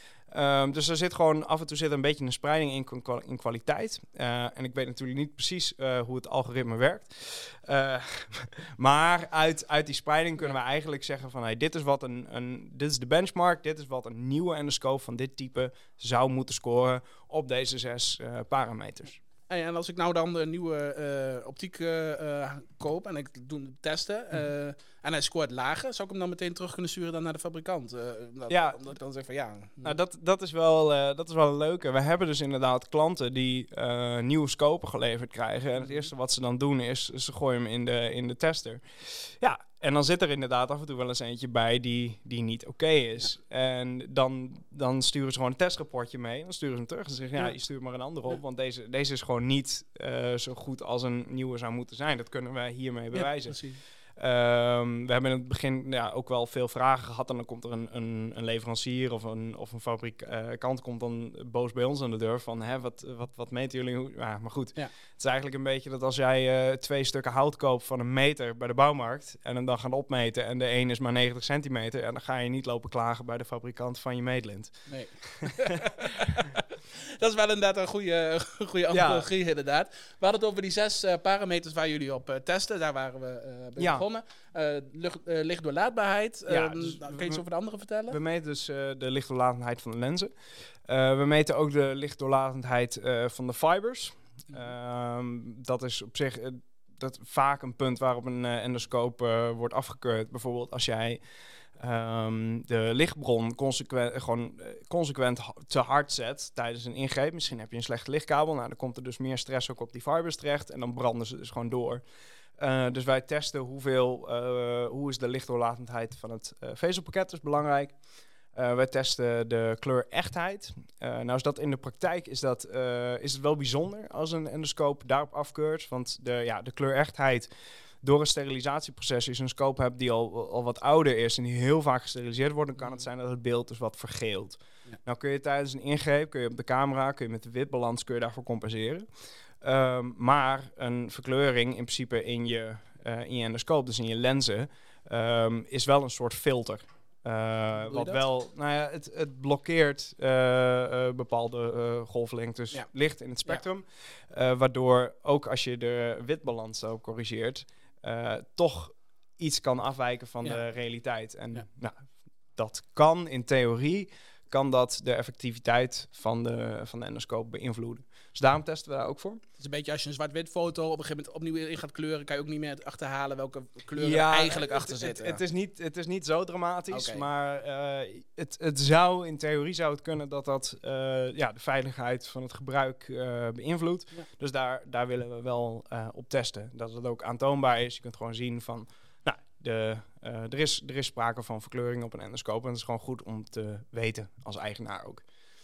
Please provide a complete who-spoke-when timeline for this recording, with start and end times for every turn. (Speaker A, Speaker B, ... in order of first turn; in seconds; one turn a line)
Speaker A: 0.3-19.2
Speaker B: 19.5-29.9
Speaker A: 28.5-28.8
Speaker A: 29.8-75.7
Speaker B: 53.1-53.8
Speaker B: 74.9-76.6
Speaker B: 77.2-88.2
Speaker A: 78.9-79.2
Speaker A: 83.8-84.0
Speaker A: 86.5-87.4
Speaker A: 88.1-90.3
Speaker A: 90.8-101.2
Speaker A: 101.8-112.0
Speaker A: 112.6-118.0
Speaker A: 118.5-127.5
Speaker A: 128.0-139.1
Speaker A: 139.6-162.0
Speaker B: 147.8-148.2
Speaker A: 162.6-169.4
Speaker B: 169.6-175.4
Speaker A: 174.0-195.2
Speaker B: 176.9-177.2